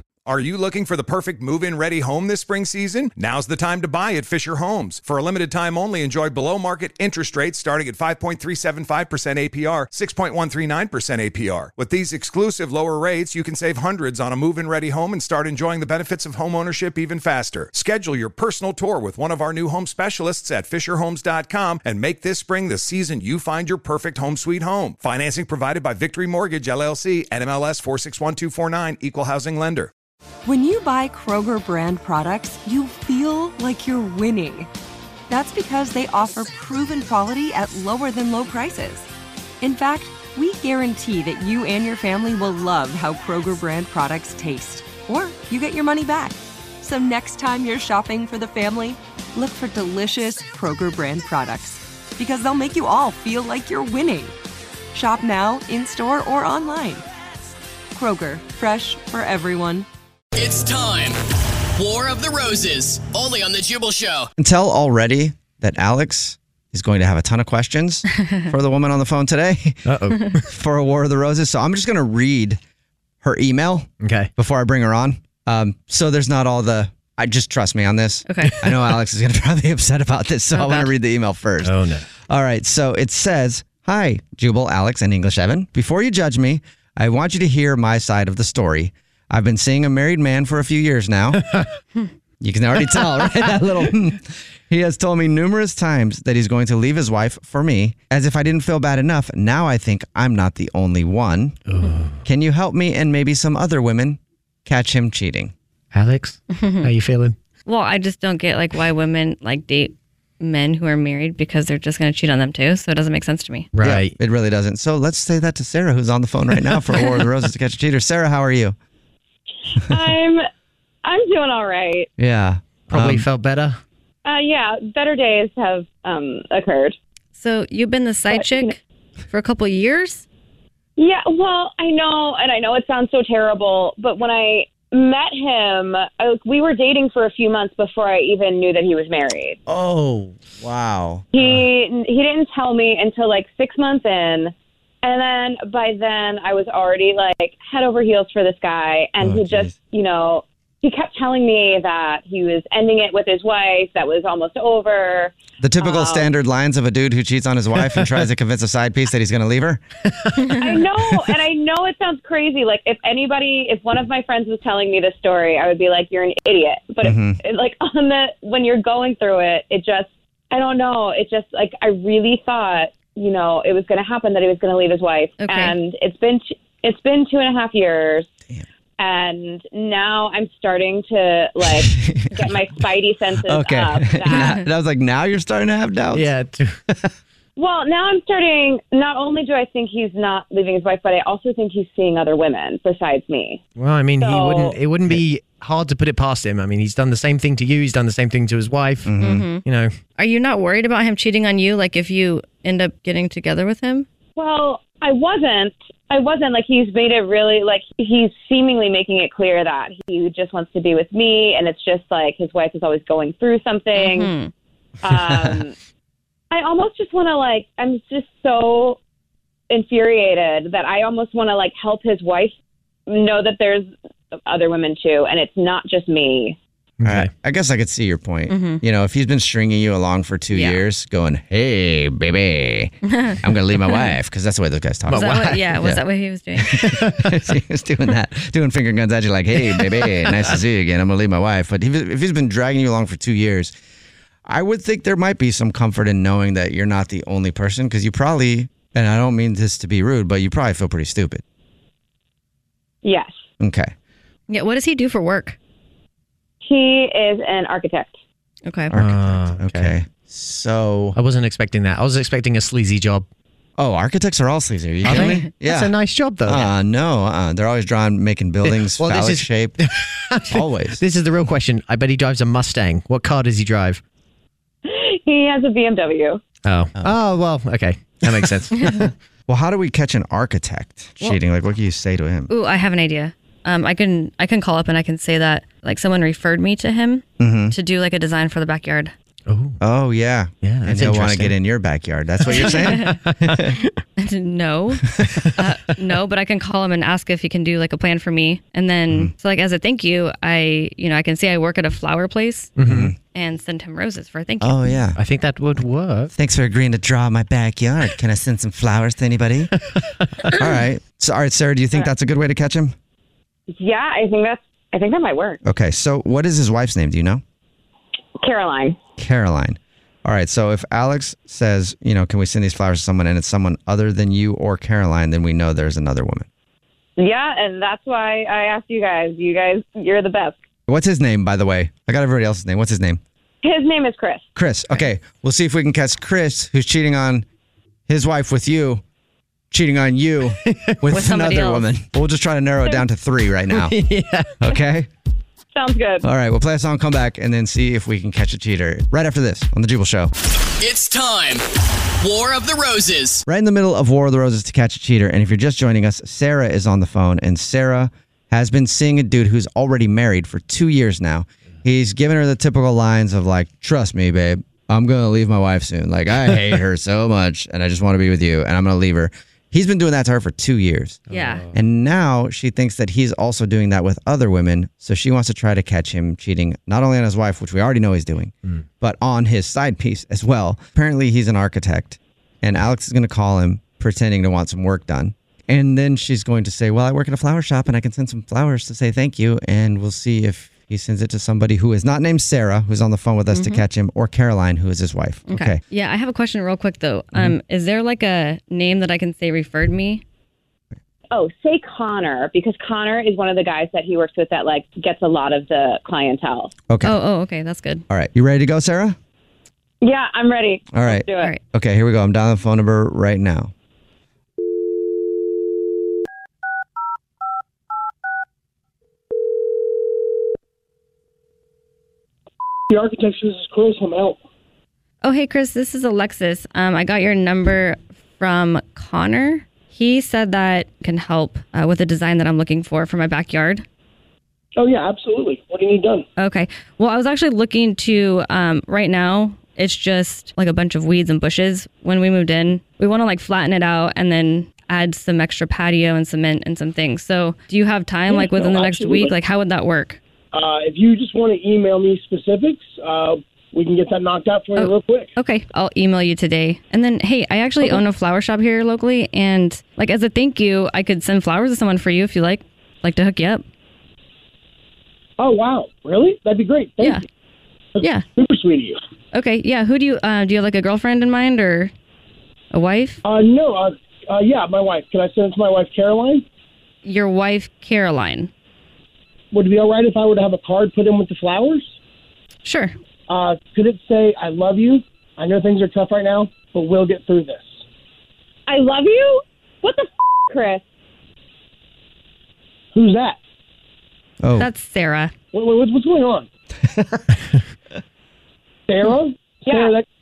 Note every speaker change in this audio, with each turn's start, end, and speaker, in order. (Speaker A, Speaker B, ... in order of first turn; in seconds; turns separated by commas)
Speaker A: 0.2-29.9, Speaker B: 30.4-34.7, Speaker B: 35.3-39.1, Speaker B: 39.6-54.3, Speaker B: 54.9-57.0, Speaker B: 57.9-59.9, Speaker C: 60.3-61.2, Speaker C: 61.7-64.3, Speaker D: 64.4-69.8, Speaker E: 69.8-70.5, Speaker D: 70.4-72.6, Speaker D: 73.2-91.5, Speaker E: 74.0-74.3, Speaker F: 78.3-78.5, Speaker E: 78.5-78.7, Speaker F: 80.5-80.9, Speaker E: 81.6-82.1, Speaker D: 92.4-101.6, Speaker E: 101.7-102.2, Speaker D: 102.2-105.5, Speaker E: 105.9-107.4, Speaker F: 106.6-106.9, Speaker F: 107.7-113.7, Speaker E: 113.7-114.1, Speaker D: 113.8-118.8, Speaker G: 119.8-120.4, Speaker G: 121.0-122.1, Speaker D: 122.2-123.3, Speaker E: 122.9-123.8, Speaker G: 124.2-127.0, Speaker F: 127.3-130.2, Speaker G: 128.3-128.7, Speaker G: 131.0-139.6, Speaker D: 139.7-141.4, Speaker G: 141.3-156.3, Speaker D: 149.2-149.7, Speaker D: 155.6-159.8, Speaker G: 160.5-178.3, Speaker D: 167.0-167.4, Speaker F: 175.4-175.8, Speaker G: 179.0-184.5, Speaker D: 181.9-182.5, Speaker D: 183.4-186.3, Speaker E: 186.1-186.8, Speaker G: 187.6-193.6, Speaker E: 193.8-199.9, Speaker G: 194.2-194.8, Speaker D: 199.0-199.4, Speaker F: 199.2-199.6, Speaker F: 200.2-204.1, Speaker G: 204.3-214.3, Speaker F: 213.9-214.5, Speaker G: 215.0-215.8, Speaker G: 216.5-219.0, Speaker G: 219.7-222.6, Speaker G: 223.1-223.9, Speaker G: 224.4-226.6, Speaker E: 227.0-227.3, Speaker D: 227.0-236.0, Speaker F: 228.5-228.8, Speaker F: 230.5-230.8, Speaker E: 235.1-235.8, Speaker F: 235.1-236.7, Speaker E: 236.6-237.3, Speaker D: 236.7-243.7, Speaker E: 239.6-240.5, Speaker D: 244.5-251.4, Speaker G: 253.0-253.3, Speaker D: 253.6-253.9, Speaker F: 254.5-255.6, Speaker G: 256.6-258.1, Speaker F: 258.6-258.9, Speaker D: 258.9-261.1, Speaker E: 258.9-260.0, Speaker E: 261.1-263.3, Speaker D: 263.8-265.9, Speaker E: 265.0-266.7, Speaker D: 266.4-269.8, Speaker E: 268.6-274.0, Speaker D: 270.5-271.0, Speaker G: 274.9-276.4, Speaker E: 276.6-279.1, Speaker D: 279.5-282.5, Speaker F: 282.5-289.1, Speaker D: 287.4-287.8, Speaker E: 289.5-289.8, Speaker D: 289.8-293.7, Speaker E: 290.6-291.6, Speaker E: 292.5-294.0, Speaker F: 292.5-293.2, Speaker F: 294.2-302.7, Speaker E: 302.8-303.1, Speaker D: 302.8-303.1, Speaker F: 303.3-304.9, Speaker D: 304.6-305.2, Speaker E: 305.1-306.3, Speaker D: 306.3-309.7, Speaker E: 309.9-310.5, Speaker D: 310.5-312.9, Speaker G: 313.7-315.6, Speaker D: 315.6-317.4, Speaker G: 318.4-319.0, Speaker D: 319.2-326.4, Speaker G: 327.2-330.6, Speaker D: 330.9-333.2, Speaker G: 333.6-334.4, Speaker D: 334.5-337.4, Speaker D: 338.1-339.0, Speaker D: 339.7-344.0, Speaker E: 340.6-341.0, Speaker F: 341.1-341.9, Speaker E: 343.7-344.6, Speaker D: 344.6-345.1, Speaker G: 345.7-346.2, Speaker D: 346.2-350.3, Speaker C: 350.8-351.6, Speaker C: 352.2-353.4, Speaker D: 353.4-371.2, Speaker E: 371.3-371.7, Speaker F: 371.3-371.6, Speaker D: 371.7-395.8, Speaker F: 393.5-393.8, Speaker F: 395.5-400.2, Speaker G: 401.3-406.7, Speaker D: 406.9-407.1, Speaker F: 407.0-408.0, Speaker D: 408.1-409.1, Speaker G: 410.0-411.5, Speaker D: 410.9-413.7, Speaker H: 422.9-424.4, Speaker F: 425.2-433.8, Speaker H: 434.8-436.2, Speaker F: 436.4-450.2, Speaker H: 448.3-449.4, Speaker H: 450.5-455.3, Speaker F: 454.8-463.6, Speaker H: 465.4-467.2, Speaker F: 467.0-467.2, Speaker H: 467.9-469.0, Speaker F: 469.3-471.9, Speaker F: 472.7-473.2, Speaker H: 473.2-476.4, Speaker F: 477.0-478.5, Speaker H: 479.5-481.9, Speaker F: 482.6-482.9, Speaker H: 483.3-487.8, Speaker G: 488.7-490.8, Speaker H: 492.9-493.4, Speaker D: 494.4-494.7, Speaker F: 494.6-495.3, Speaker H: 495.5-496.4, Speaker H: 498.9-500.1, Speaker G: 499.6-499.9